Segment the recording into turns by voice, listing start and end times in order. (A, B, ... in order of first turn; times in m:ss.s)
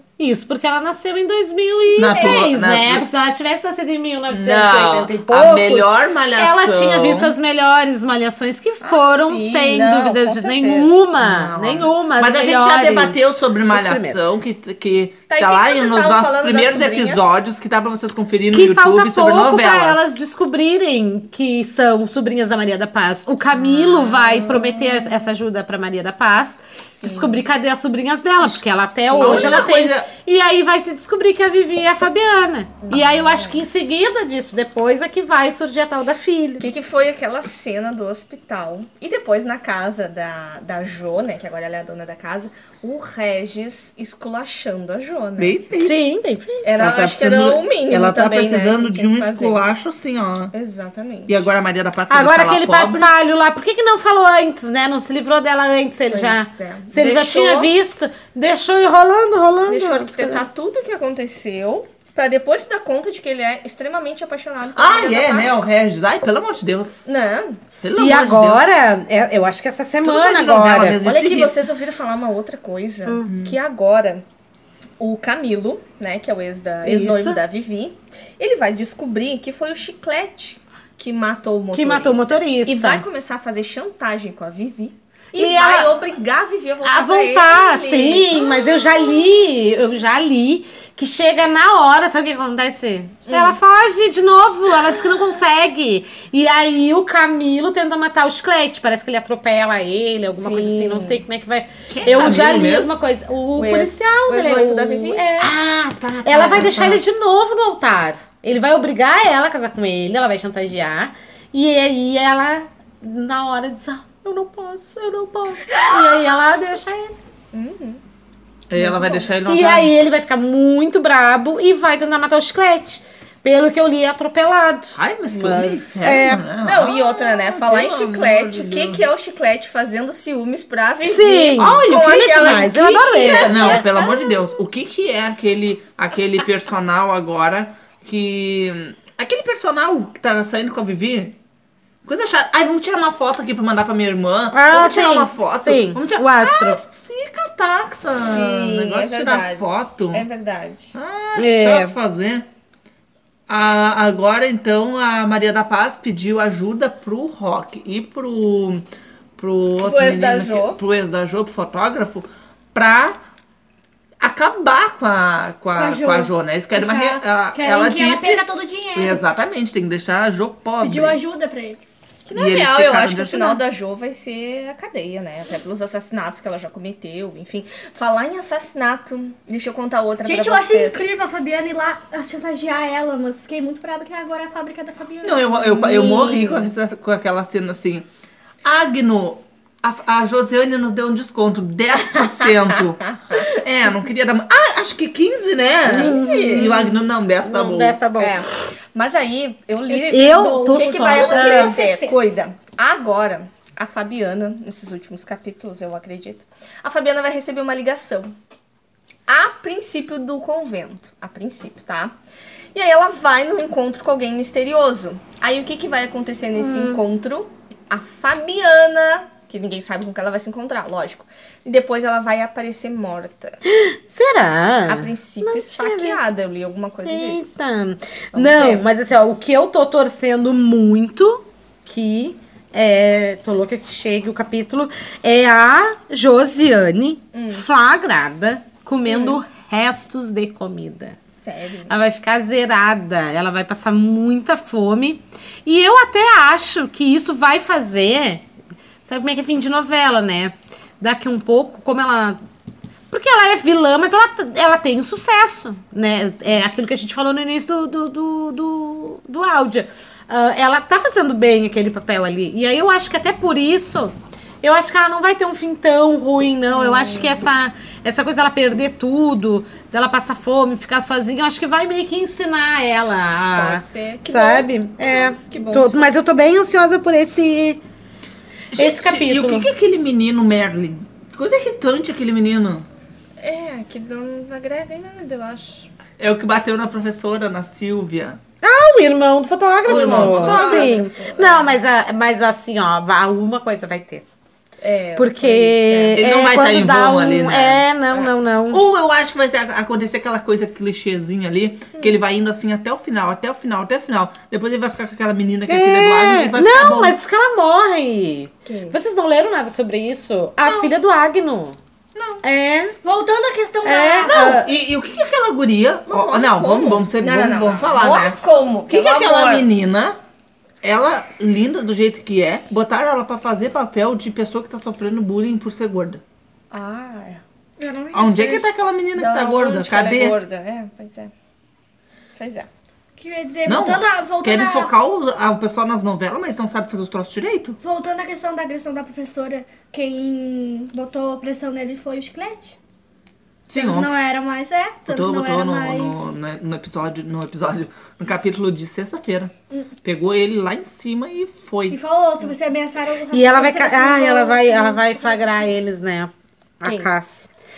0:00.2-0:14.3 A
0:02.0-0:02.5 B
0:02.0-0:03.1 C
0:04.3-0:07.3 C
0:08.8-0:11.1 D
0:11.2-0:20.1 C
0:15.3-0:17.4 D
0:18.5-0:36.7 A
0:23.5-0:25.2 D
0:26.9-0:27.4 D
0:28.4-0:29.7 D
0:29.2-0:30.1 C
0:32.8-0:33.6 D
0:36.6-0:45.6 D
0:45.4-0:46.0 C
0:45.8-0:46.6 A
0:46.6-0:49.6 D
0:46.7-0:50.5 C
0:50.5-0:51.4 D
0:51.3-0:53.1 C
0:52.1-1:00.4 A
0:56.1-0:57.7 D
0:59.7-1:05.6 D
1:04.7-1:07.1 C
1:07.1-1:07.6 D
1:07.8-1:08.7 C
1:08.0-1:11.0 A
1:10.0-1:11.6 C
1:11.0-1:14.2 D
1:13.3-1:13.6 C
1:15.0-1:28.9 D
1:16.8-1:17.4 A
1:21.7-1:23.0 A
1:25.4-1:25.9 A
1:26.8-1:45.6 A
1:33.3-1:33.6 D
1:40.3-1:41.2 D
1:41.9-1:42.9 C
1:43.5-1:45.3 D
1:45.4-1:47.0 C
1:46.2-1:57.2 A
1:57.5-1:58.0 D
1:58.7-1:59.9 C
1:58.8-1:59.3 D
1:59.4-2:06.4 A
2:05.0-2:09.0 C
2:06.6-2:14.3 D
2:11.0-2:13.9 A
2:11.6-2:21.4 C
2:22.0-2:30.2 C
2:24.5-2:26.8 A
2:28.2-2:30.9 D
2:30.9-2:32.4 C
2:31.3-2:31.9 A
2:33.5-2:38.8 C
2:39.4-2:43.2 C
2:39.8-2:40.8 D
2:44.2-2:48.4 C
2:45.8-2:49.2 B
2:48.9-2:51.2 C
2:50.8-2:51.8 B
2:52.3-3:01.1 D
2:52.3-2:53.6 C
3:00.2-3:05.7 B
3:05.2-3:08.0 C
3:05.5-3:06.7 D
3:08.6-3:18.0 C
3:13.3-3:13.5 D
3:15.9-3:18.4 A
3:15.9-3:16.8 D
3:18.2-3:28.3 D
3:19.9-3:22.2 B
3:20.0-3:21.8 A
3:29.3-3:32.1 D
3:32.7-3:43.6 D
3:36.6-3:37.0 A
3:43.6-3:46.3 A
3:44.8-3:47.6 D
3:47.0-4:01.2 A
3:48.3-3:48.8 D
3:57.3-3:57.6 D
3:59.0-3:59.4 D
4:01.3-4:02.0 D
4:01.9-4:08.4 A
4:09.0-4:12.4 A
4:13.1-4:37.8 A
4:26.7-4:27.4 D
4:33.5-4:36.4 D
4:38.7-4:42.8 C
4:38.7-4:39.7 A
4:43.4-4:45.9 D
4:46.2-4:48.4 C
4:48.6-4:54.2 A
4:49.8-4:51.0 C
4:49.8-4:51.8 D
4:54.8-4:56.2 D
4:55.2-4:58.8 A
4:56.1-5:07.2 C
5:05.7-5:11.8 A
5:08.6-5:09.0 D
5:10.6-5:10.9 C
5:12.1-5:12.4 C
5:12.4-5:13.0 A
5:13.0-5:14.6 B
5:13.8-5:14.7 A
5:14.2-5:18.4 C
5:16.1-5:19.7 D
5:18.9-5:20.2 C
5:20.8-5:26.2 C
5:26.7-5:27.4 D
5:27.8-5:28.6 B
5:28.1-5:30.4 C
5:29.1-5:31.3 D
5:32.4-5:32.7 D
5:33.2-5:34.9 B
5:33.6-5:37.8 C
5:37.8-5:42.8 B
5:43.7-5:44.1 C
5:43.7-5:46.4 B
5:45.1-5:49.5 C
5:50.0-5:52.0 C
5:51.9-5:55.5 B
5:53.3-5:57.5 A
5:56.8-5:57.1 D